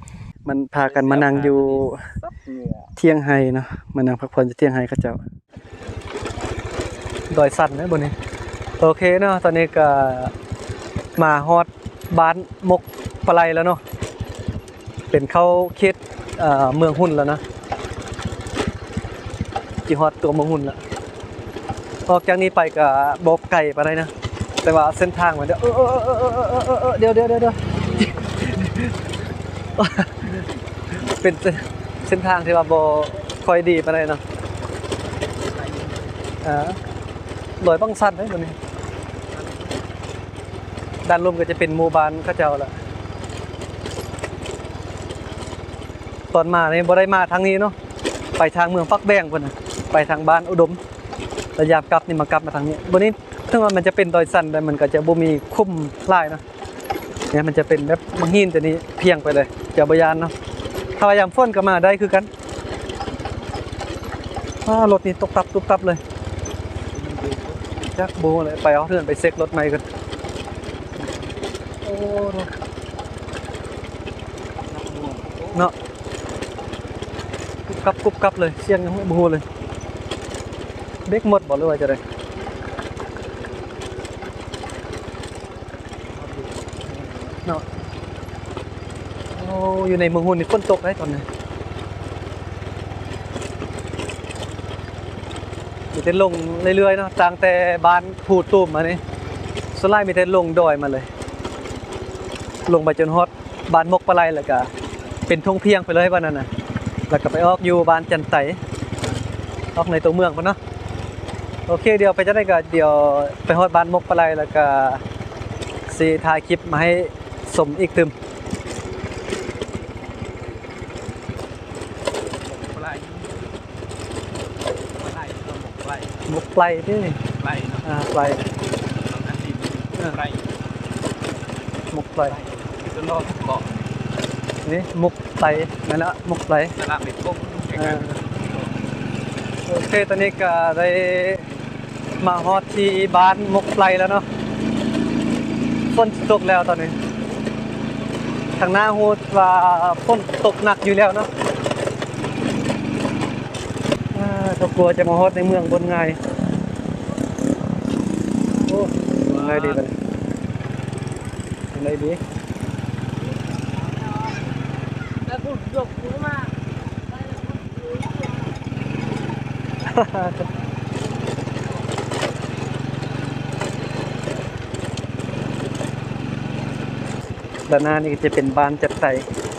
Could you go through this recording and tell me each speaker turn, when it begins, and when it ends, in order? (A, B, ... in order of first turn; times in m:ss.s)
0:00.4-0:02.1 A
0:00.8-0:02.9 B
0:03.0-0:05.2 A
0:07.3-0:08.1 A
0:08.8-0:10.3 A
0:11.2-0:13.8 A
0:15.1-0:17.4 A
0:19.9-0:20.8 A
0:22.1-0:24.1 A
0:24.6-0:27.6 A
0:29.8-0:30.4 A
0:31.0-0:34.2 A
0:35.3-0:36.4 B
0:36.4-0:36.8 A
0:37.6-0:38.6 A
0:39.2-0:39.9 B
0:41.0-0:42.8 A
0:46.3-0:47.8 A
0:48.4-0:50.8 A
0:51.6-0:56.4 A
0:57.3-1:00.3 A
1:01.0-1:02.3 A
1:03.1-1:03.5 B
1:04.6-1:06.0 A
1:06.9-1:07.6 B
1:07.8-1:09.8 A
1:10.8-1:11.4 B
1:11.8-1:12.5 A
1:14.6-1:15.7 B
1:17.7-1:19.4 A
1:21.1-1:22.0 A
1:26.1-1:27.4 B
1:29.3-1:31.3 A
1:35.9-1:39.0 A
1:39.7-1:41.1 A
1:42.7-1:44.7 A
1:45.3-1:46.5 A
1:47.1-1:48.6 A
1:49.8-1:50.6 A
1:51.7-1:55.0 A
1:55.9-1:58.2 A
2:02.4-2:03.6 B
2:04.9-2:06.2 B
2:06.3-2:07.2 A
2:07.4-2:07.9 B
2:07.8-2:08.4 A
2:09.0-2:10.5 B
2:11.9-2:12.4 A
2:12.2-2:13.8 B
2:14.6-2:16.7 A
2:16.8-2:18.8 B
2:17.8-2:18.2 A
2:19.7-2:21.5 A
2:22.2-2:24.2 A
2:25.9-2:27.0 A
2:28.6-2:31.3 A
2:34.1-2:36.2 A
2:38.7-2:40.0 A
2:39.2-2:39.8 B
2:41.7-2:42.2 A
2:45.3-2:46.5 C
2:47.2-2:48.3 C
2:49.9-2:50.5 A
2:57.7-2:59.2 A